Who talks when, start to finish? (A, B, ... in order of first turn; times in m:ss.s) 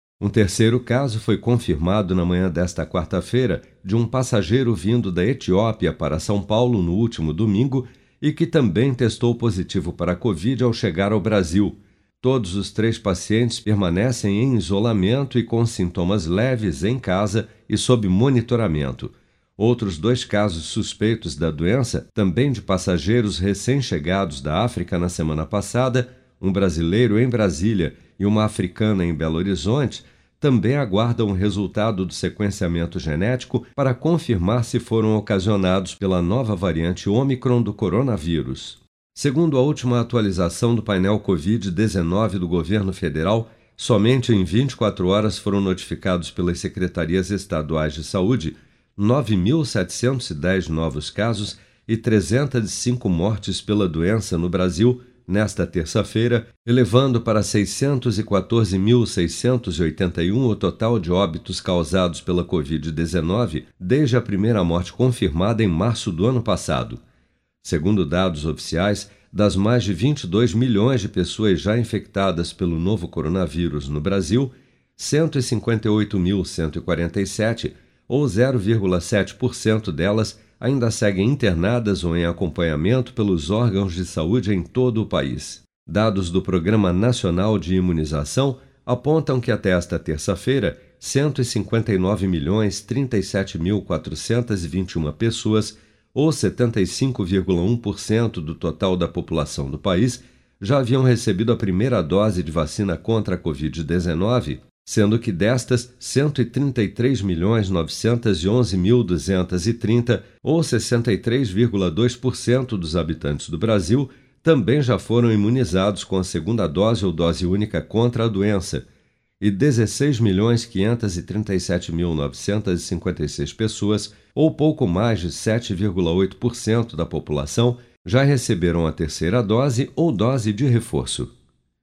0:00.2-1:07.0 A
1:07.6-1:58.8 A
1:59.4-2:11.3 A